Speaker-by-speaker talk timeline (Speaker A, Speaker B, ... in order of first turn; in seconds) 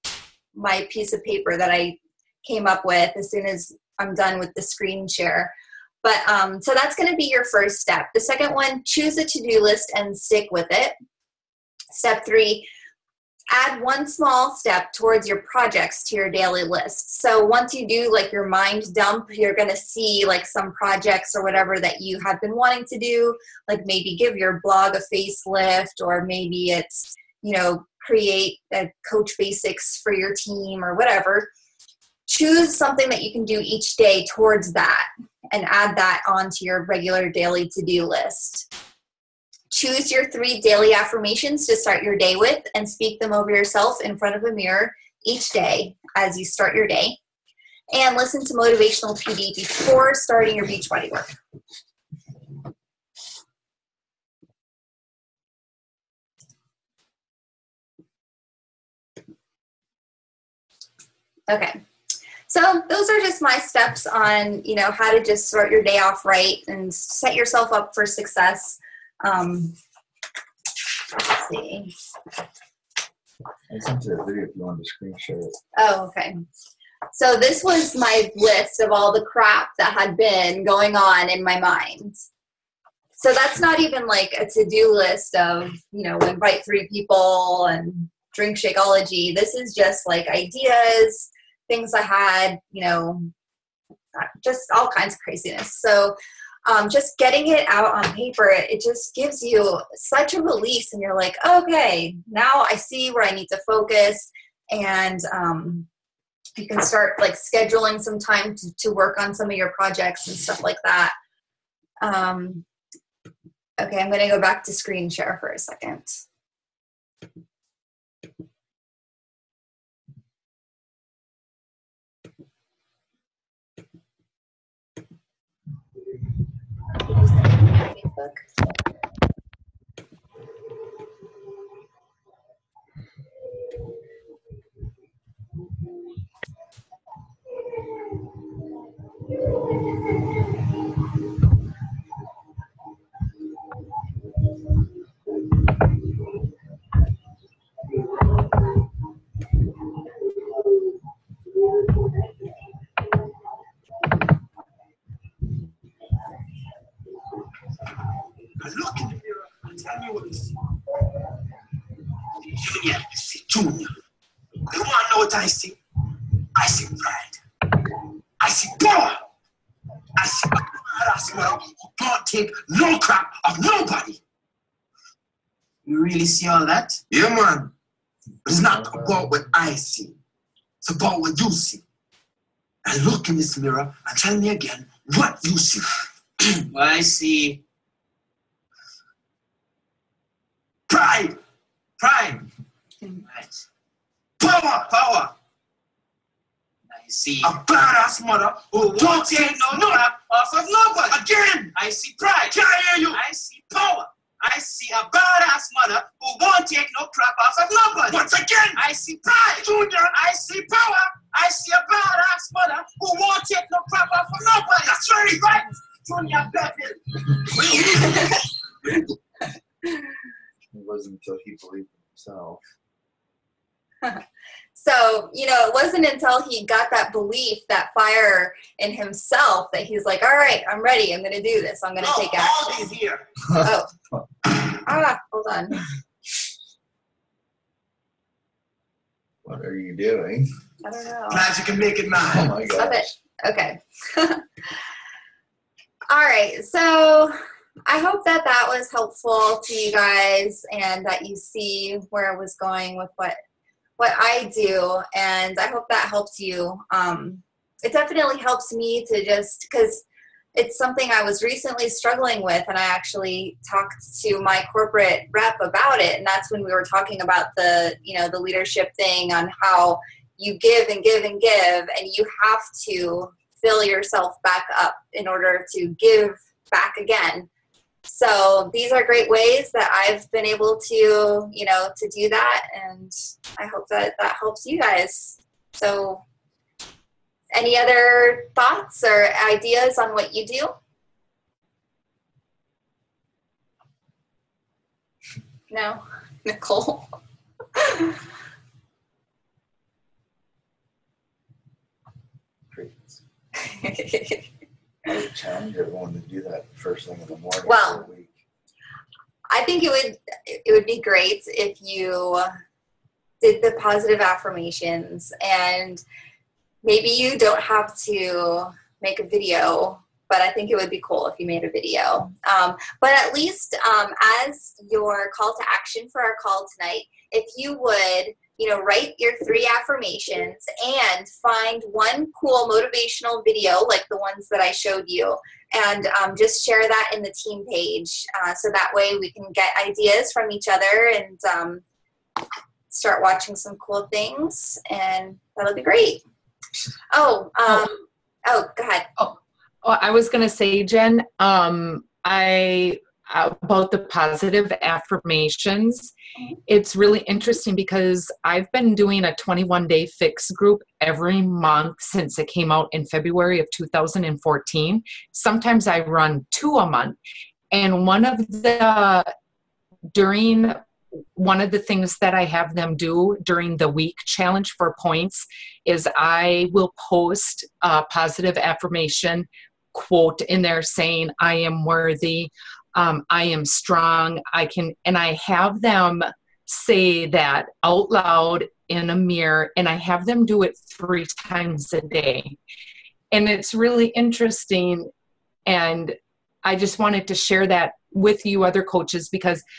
Speaker A: 0.6-5.5, 6.0-10.9, 11.9-12.7, 13.5-31.5, 32.3-38.7, 39.7-47.2, 47.9-51.3, 61.5-61.8, 62.5-69.8, 71.2-71.9, 75.8-76.4, 77.1-82.2, 83.2-93.3, 94.2-96.2, 96.7-105.9, 106.6-111.2, 112.0-112.6, 113.8-116.2, 127.1-128.4, 224.8-232.6, 233.6-233.9, 234.6-235.8, 240.8-241.5, 242.7-244.4, 246.1-247.3, 247.9-253.4, 254.0-260.0, 260.6-277.5, 278.1-286.2, 287.5-290.8, 295.7-297.1, 297.8-298.2, 303.6-304.5, 307.6-308.0, 309.5-312.5, 313.4-316.0, 316.8-341.8, 342.9-346.2, 347.1-349.1
Speaker B: 73.7-75.5, 220.7-222.6, 239.4-240.5, 242.3-243.2, 302.7-303.2, 305.1-308.4
Speaker C: 158.6-160.5, 162.6-163.9, 164.7-165.8, 166.6-167.4, 168.4-169.3, 170.2-174.2, 176.3-177.7, 178.4-180.2, 180.8-181.8, 182.8-186.0, 190.9-191.4, 194.4-195.0, 197.4-200.1, 201.0-201.8, 202.5-203.2, 208.1-208.9, 209.6-210.0, 217.2-218.1, 232.1-233.2, 241.3-242.6
Speaker D: 175.9-176.6, 186.7-187.6, 192.0-192.4, 194.9-195.3, 196.9-197.6, 198.7-217.0, 232.1-232.8
Speaker E: 349.2-356.1, 356.7-367.2, 367.7-369.3, 370.1-370.8, 371.4-392.6, 393.3-395.1, 395.7-399.6